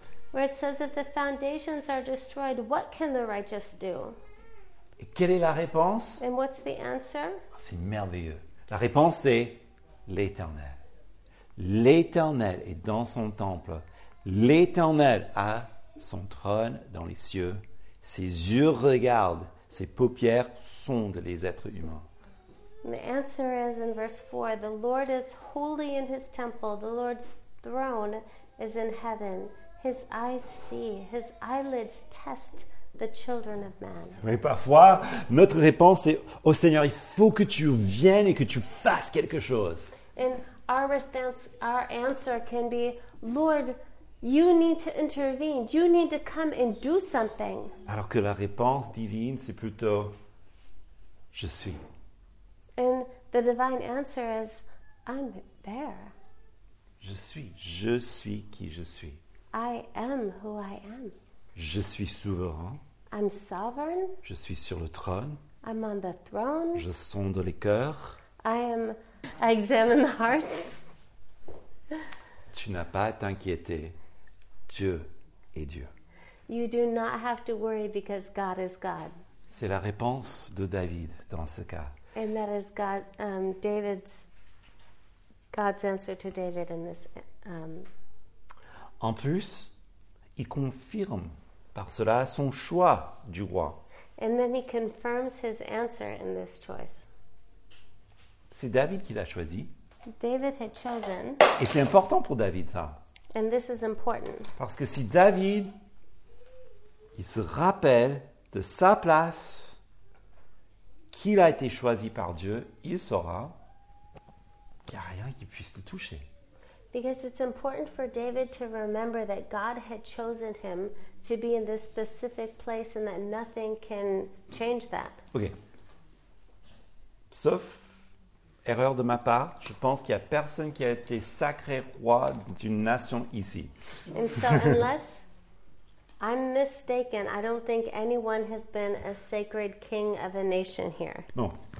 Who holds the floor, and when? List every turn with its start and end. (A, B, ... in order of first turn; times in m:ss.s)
0:00.3-0:04.2 A
0:05.0-0:06.2 B
0:06.2-0:07.4 A
0:07.6-0:10.8 B
0:11.6-0:22.1 B
0:22.8-0:34.2 A
0:34.2-0:39.9 B
0:40.2-0:47.7 A
0:47.9-0:50.2 B
0:51.3-0:51.8 B
0:52.8-0:56.1 A
0:57.0-0:59.2 B
0:59.5-1:01.2 A
1:01.6-1:02.8 B
1:03.1-1:04.2 A
1:04.2-1:05.4 B
1:05.6-1:06.9 A
1:06.8-1:08.2 B
1:08.4-1:10.8 A
1:12.5-1:14.0 B
1:14.7-1:15.9 B
1:16.5-1:19.1 A
1:19.5-1:22.0 B
1:22.2-1:24.3 A
1:25.5-1:27.9 A
1:29.0-1:29.7 B
1:30.4-1:33.8 B
1:34.2-1:37.1 A
1:38.5-1:39.7 B
1:40.2-1:41.4 A
1:41.6-1:43.0 B
1:43.3-1:44.5 A
1:44.6-1:45.7 B
1:47.2-1:49.8 B
1:51.1-1:53.6 B
1:54.9-1:56.2 B
1:56.9-2:05.2 A
2:07.3-2:07.9 B
2:08.6-2:13.7 B
2:14.1-2:15.3 A
2:16.2-2:21.3 A